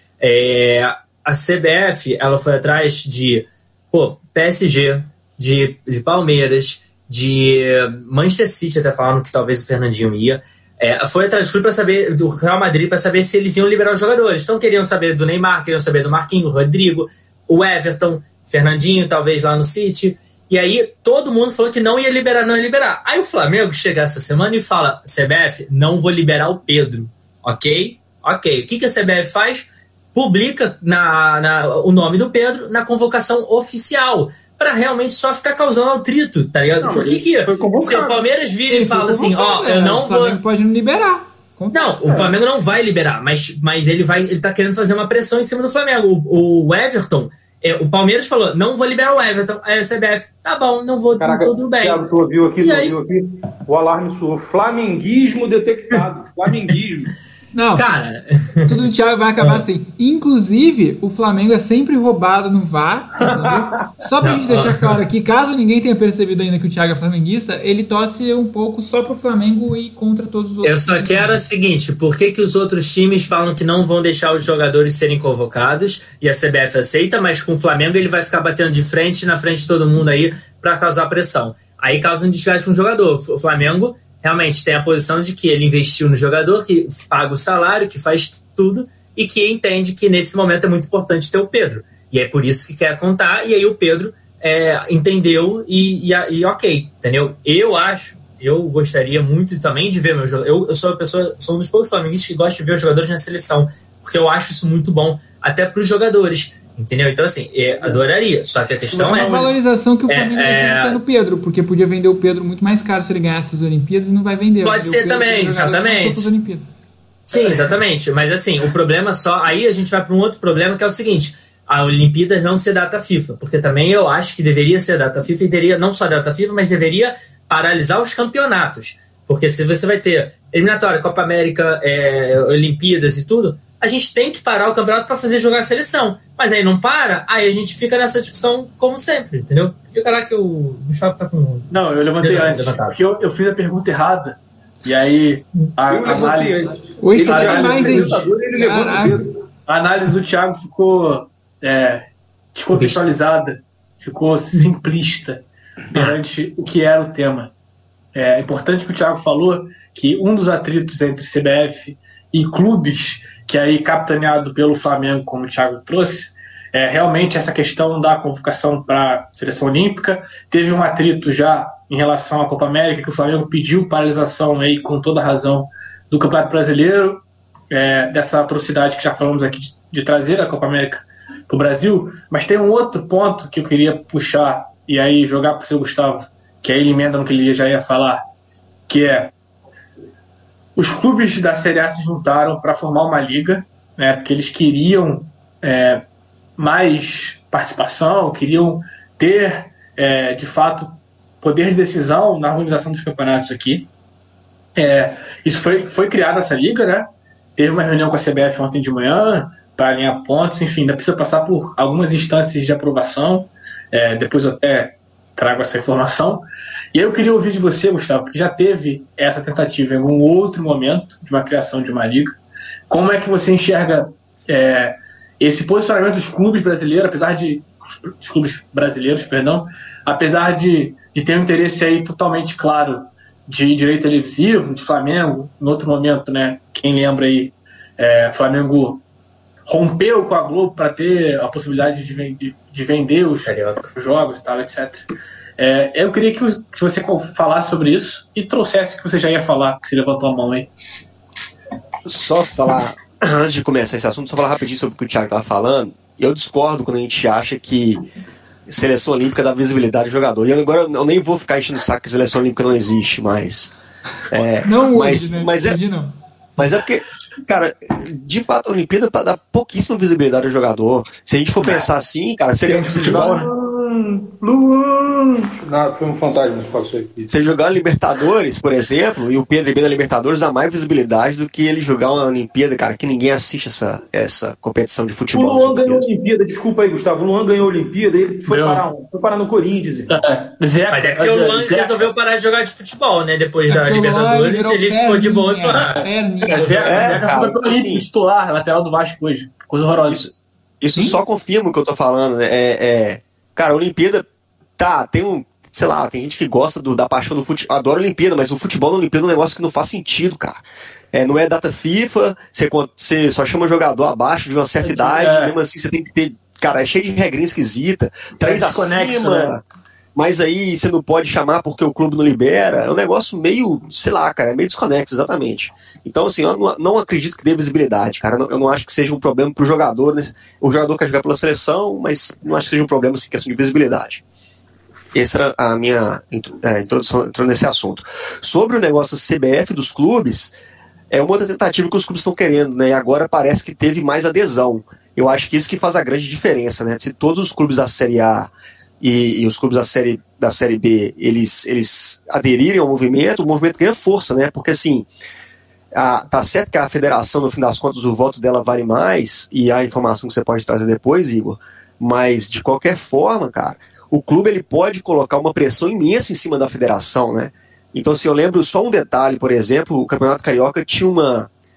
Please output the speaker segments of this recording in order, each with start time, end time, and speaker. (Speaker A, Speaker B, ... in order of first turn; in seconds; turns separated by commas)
Speaker A: 0.2-40.4, Speaker B: 36.8-38.3, Speaker C: 38.7-42.2, Speaker A: 41.7-52.0, Speaker B: 51.2-57.1, Speaker A: 52.6-53.0, Speaker C: 57.5-57.9, Speaker A: 57.7-58.8, Speaker C: 58.6-71.4, Speaker A: 59.4-59.6, Speaker B: 63.2-63.9, Speaker A: 64.2-65.0, Speaker A: 70.6-109.5, Speaker D: 108.9-109.3, Speaker C: 108.9-116.7, Speaker A: 110.1-111.0, Speaker A: 114.6-116.3, Speaker A: 117.3-143.0, Speaker D: 141.7-146.7, Speaker B: 145.9-149.3, Speaker C: 147.0-149.2, Speaker D: 147.2-148.3, Speaker D: 149.7-157.5, Speaker A: 152.7-153.1, Speaker D: 158.1-188.2, Speaker D: 188.9-189.3, Speaker D: 190.8-196.0, Speaker D: 196.6-203.9, Speaker D: 204.8-222.4, Speaker D: 222.9-239.0, Speaker D: 239.7-245.0, Speaker A: 243.4-243.9, Speaker D: 245.6-250.7, Speaker E: 252.0-258.0, Speaker E: 258.7-263.7, Speaker E: 264.3-265.8, Speaker C: 264.6-266.1, Speaker E: 266.6-273.3, Speaker B: 272.7-277.3, Speaker D: 272.7-273.5, Speaker E: 277.3-286.1, Speaker B: 285.3-290.1, Speaker D: 288.5-288.8, Speaker D: 290.1-292.1, Speaker A: 290.9-296.1, Speaker C: 293.7-297.0, Speaker D: 296.0-300.3, Speaker E: 296.6-298.0, Speaker E: 300.8-304.2, Speaker E: 304.8-310.6, Speaker E: 311.1-319.6, Speaker D: 314.8-315.5, Speaker D: 318.4-319.5, Speaker E: 320.1-334.2, Speaker E: 335.1-340.5, Speaker E: 341.1-348.5, Speaker E: 349.0-355.1, Speaker E: 355.9-371.5